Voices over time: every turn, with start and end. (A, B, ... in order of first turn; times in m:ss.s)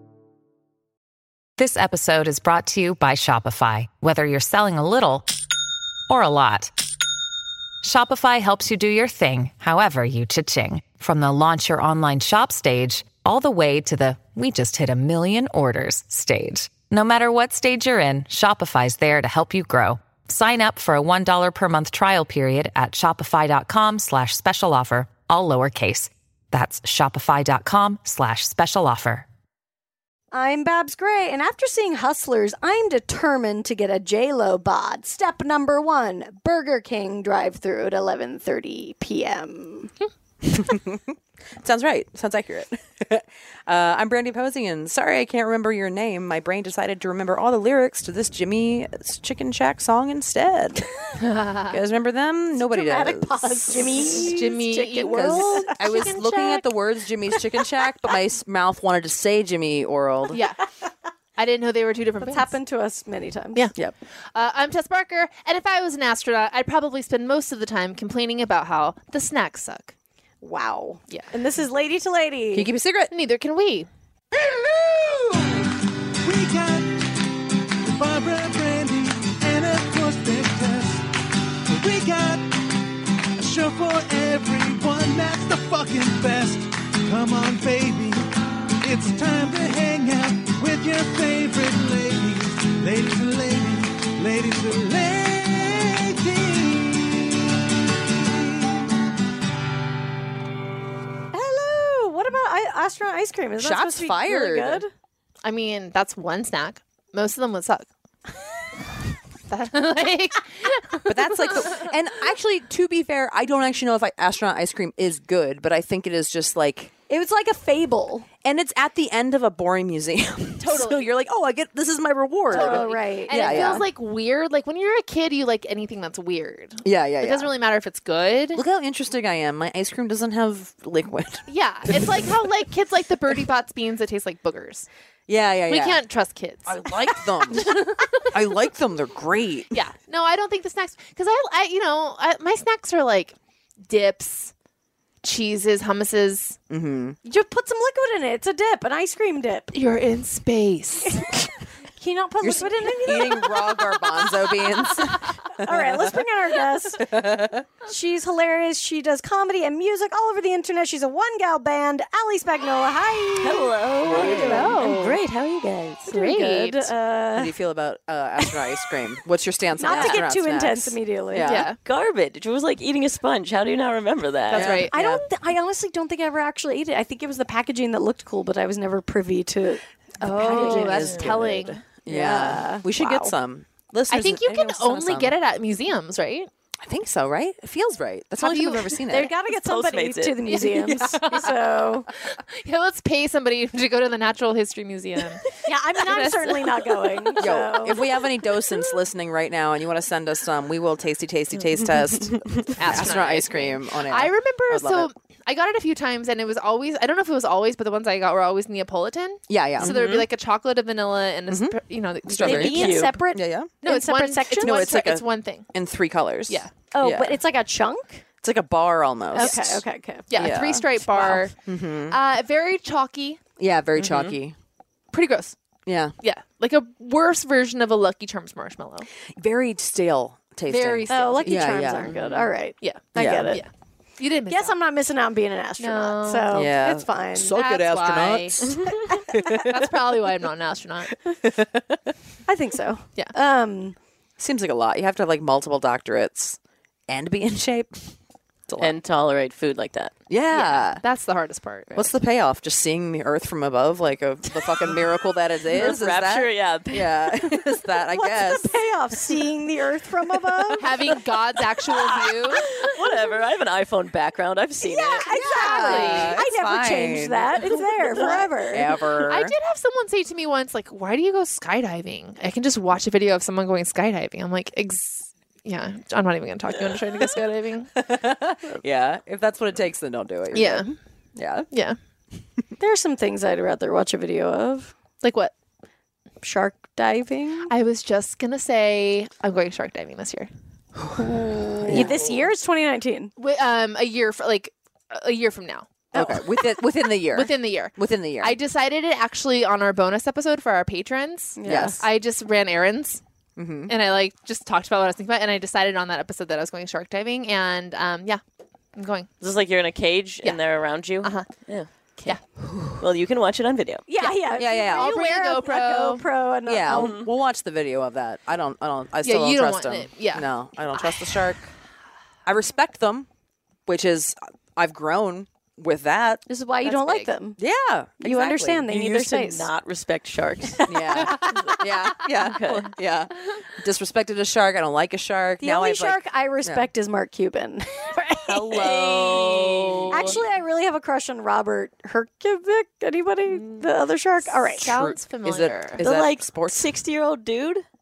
0:01.6-0:05.3 A
0:06.1-0:06.7 A
0:07.8-0:29.3 A
0:30.3-0:39.9 B
0:40.4-0:50.8 C
0:51.2-0:51.8 D
0:51.7-0:54.2 C
0:52.7-0:56.7 B
0:54.1-0:55.8 D
0:55.3-1:00.4 C
1:00.3-1:00.6 D
1:01.4-1:02.6 D
1:02.2-1:03.7 B
1:04.3-1:09.9 D
1:10.4-1:12.7 B
1:12.5-1:13.1 C
1:13.1-1:13.9 D
1:14.4-1:15.7 E
1:16.2-1:21.1 E
1:21.7-1:22.6 E
1:23.4-1:28.2 E
1:28.8-1:37.4 E
1:41.3-1:44.9 B
1:43.6-1:44.8 C
1:45.4-1:47.9 D
1:49.5-1:51.9 D
1:51.1-1:56.9 C
1:57.1-1:58.3 B
1:58.4-2:03.9 C
2:00.6-2:01.1 D
2:02.5-2:03.8 B
2:02.5-2:08.6 D
2:06.8-2:07.5 C
2:08.5-2:12.4 C
2:11.5-2:14.9 D
2:15.3-2:16.0 C
2:15.7-2:18.4 D
2:16.6-2:19.8 C
2:19.7-2:23.3 D
2:23.8-2:24.5 D
2:25.2-2:26.6 D
2:26.7-2:27.2 C
2:27.2-2:29.7 B
2:29.7-2:31.3 D
2:32.0-2:35.0 B
2:32.4-2:37.7 C
2:35.5-2:37.2 B
2:37.8-2:44.8 B
2:43.4-2:46.1 F
2:44.0-2:44.7 C
2:44.2-2:45.2 D
2:46.1-2:46.9 D
2:46.1-2:47.5 B
2:47.4-2:51.7 C
2:49.8-2:51.5 B
2:51.4-2:51.8 D
2:51.8-2:54.8 F
2:54.5-2:55.2 D
2:54.5-2:55.2 C
2:54.9-3:01.2 B
3:00.2-3:01.8 D
3:00.3-3:05.4 C
3:01.0-3:01.4 F
3:02.1-3:03.3 B
3:04.1-3:06.5 D
3:06.8-3:09.3 C
3:08.4-3:09.0 D
3:09.1-3:12.1 B
3:09.6-3:10.6 F
3:10.5-3:11.7 D
3:12.3-3:17.6 D
3:15.6-3:18.0 B
3:17.4-3:25.1 C
3:21.8-3:23.1 F
3:22.8-3:33.2 D
3:29.5-3:30.0 C
3:29.8-3:30.3 F
3:31.5-3:33.7 C
3:32.4-3:34.9 B
3:32.6-3:33.1 F
3:33.8-3:35.7 D
3:34.6-3:37.4 C
3:36.9-3:38.2 B
3:38.4-3:39.8 C
3:39.3-3:40.6 B
3:39.4-3:39.8 D
3:40.3-3:41.6 D
3:40.3-3:42.2 C
3:42.1-3:43.4 D
3:43.6-3:44.6 C
3:44.0-3:44.4 F
3:45.1-3:45.6 D
3:45.9-3:46.2 C
3:46.2-3:49.1 D
3:49.3-3:52.2 C
3:50.7-3:51.8 D
3:51.1-3:53.6 B
3:52.1-3:52.5 F
3:52.8-3:54.8 D
3:53.2-3:53.6 C
3:54.5-3:57.6 B
3:55.8-3:56.7 D
3:56.5-3:59.9 C
3:57.5-3:58.6 D
3:58.7-3:59.0 F
3:59.5-4:01.2 D
4:01.4-4:02.0 C
4:02.5-4:04.0 B
4:04.4-4:08.1 C
4:08.7-4:09.0 C
4:08.8-4:10.1 F
4:10.3-4:11.0 C
4:10.5-4:12.1 D
4:12.0-4:18.8 C
4:15.7-4:17.5 F
4:18.2-4:20.9 B
4:20.8-4:23.0 D
4:22.5-4:25.3 F
4:24.8-4:28.9 B
4:25.3-4:26.4 D
4:25.3-4:27.6 C
4:28.0-4:28.5 F
4:28.7-4:29.5 C
4:29.3-4:37.9 D
4:38.0-4:41.7 C
4:40.5-4:40.9 D
4:41.7-4:42.0 D
4:42.8-4:45.0 B
4:45.2-4:45.5 D
4:46.4-4:47.7 B
4:47.7-4:50.5 D
4:51.0-4:52.2 C
4:51.2-4:52.2 D
4:51.9-4:53.3 B
4:53.4-4:55.9 D
4:56.1-4:56.6 B
4:56.1-4:58.6 C
4:57.3-5:03.2 D
5:01.6-5:02.0 B
5:01.6-5:02.1 C
5:03.6-5:03.9 C
5:03.9-5:08.4 D
5:09.0-5:09.3 D
5:09.4-5:12.3 F
5:11.2-5:11.5 D
5:12.6-5:13.0 C
5:13.0-5:14.1 F
5:14.1-5:17.2 B
5:14.6-5:15.2 C
5:14.9-5:16.3 D
5:16.6-5:21.7 C
5:16.9-5:17.3 F
5:19.2-5:21.6 D
5:22.5-5:23.3 C
5:23.9-5:26.4 C
5:26.5-5:27.6 B
5:26.8-5:27.3 D
5:27.6-5:28.9 C
5:28.2-5:29.7 B
5:28.9-5:33.0 F
5:30.8-5:31.6 B
5:30.9-5:36.9 C
5:35.6-5:38.9 B
5:38.5-5:40.1 C
5:38.7-5:40.4 F
5:39.2-5:40.4 D
5:40.1-5:44.9 B
5:44.8-5:46.0 D
5:44.8-5:46.9 C
5:46.0-5:47.8 F